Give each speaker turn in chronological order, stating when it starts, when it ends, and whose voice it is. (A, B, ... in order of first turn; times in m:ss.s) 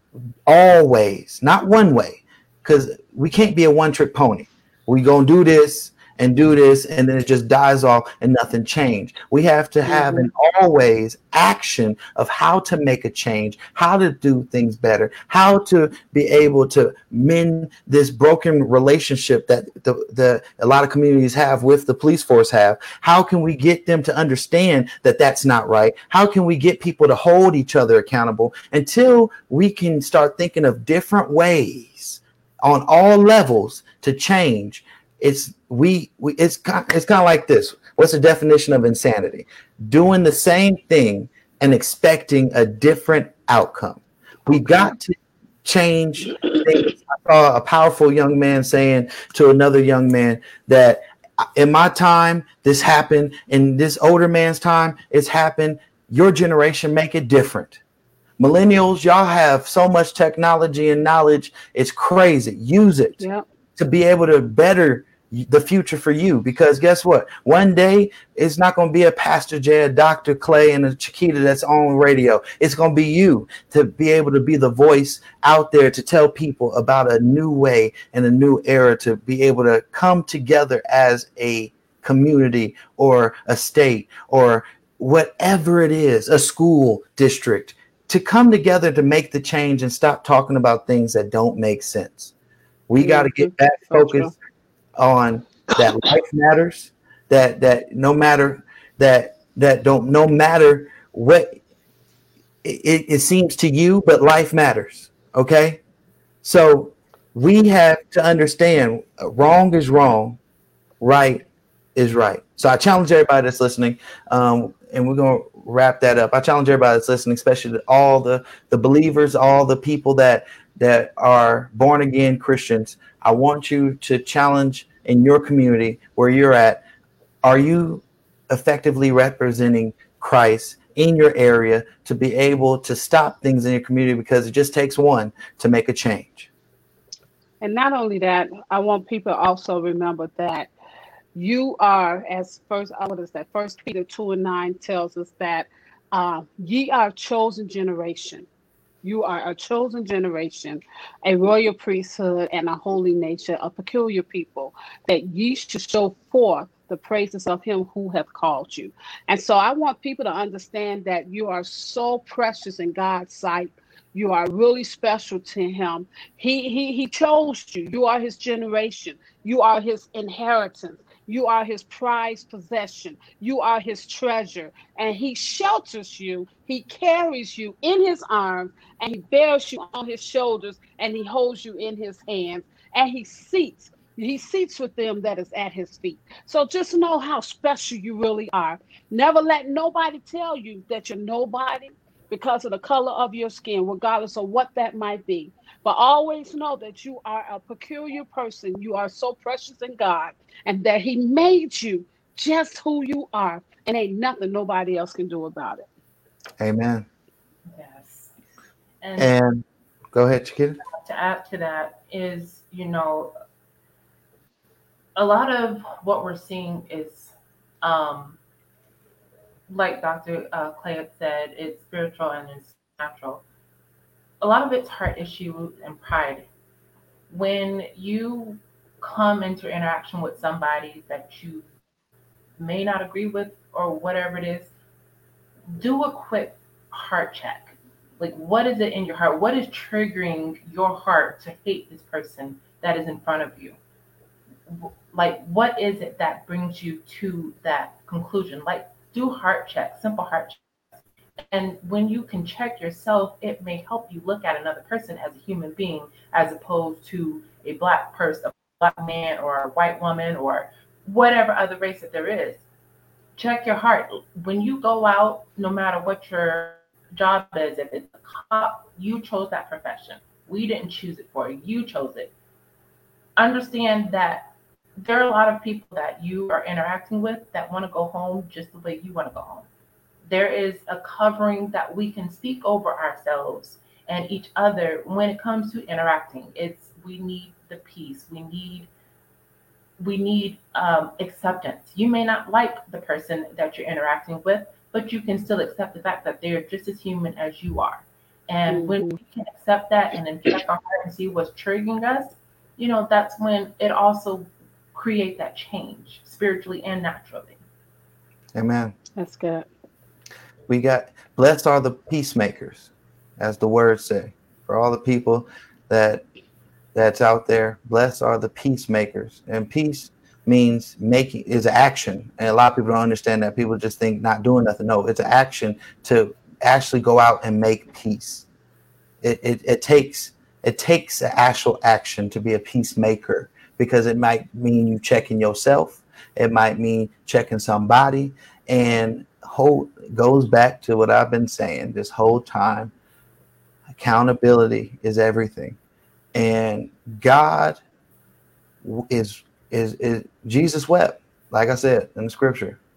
0:00.4-0:57.8 A
0:09.8-0:10.3 B
0:44.6-0:44.9 B
0:58.4-1:03.2 A
1:03.2-1:03.4 B
1:03.8-1:32.3 A
1:32.9-1:34.3 A
1:33.0-1:34.3 B
1:35.0-1:41.6 A
1:35.8-1:36.1 B
1:42.6-1:45.8 A
1:46.4-1:50.4 A
1:51.0-1:51.4 A
1:52.0-2:06.8 A
2:07.4-2:16.5 A
2:17.6-2:20.7 B
2:21.3-2:28.5 B
2:29.0-3:25.9 B
3:26.6-3:27.1 A
3:27.7-3:28.3 C
3:29.0-3:29.3 C
3:29.2-3:30.8 A
3:30.8-3:33.3 C
3:35.2-3:38.4 C
3:39.7-3:43.4 C
3:44.4-3:46.5 C
3:47.3-3:51.6 C
3:52.6-3:54.7 C
3:55.7-4:03.8 C
4:04.7-4:10.6 C
4:11.5-4:22.6 C
4:23.4-4:32.3 C
4:33.4-4:39.6 C
4:40.3-4:48.9 C
4:50.0-5:07.6 C
4:58.7-4:59.2 B
5:08.5-5:09.0 A
5:09.2-5:09.6 B
5:10.7-5:16.2 A
5:16.9-5:28.5 A
5:29.2-5:42.9 A
5:43.9-5:45.8 A
5:46.3-5:47.8 A
5:48.8-5:52.8 A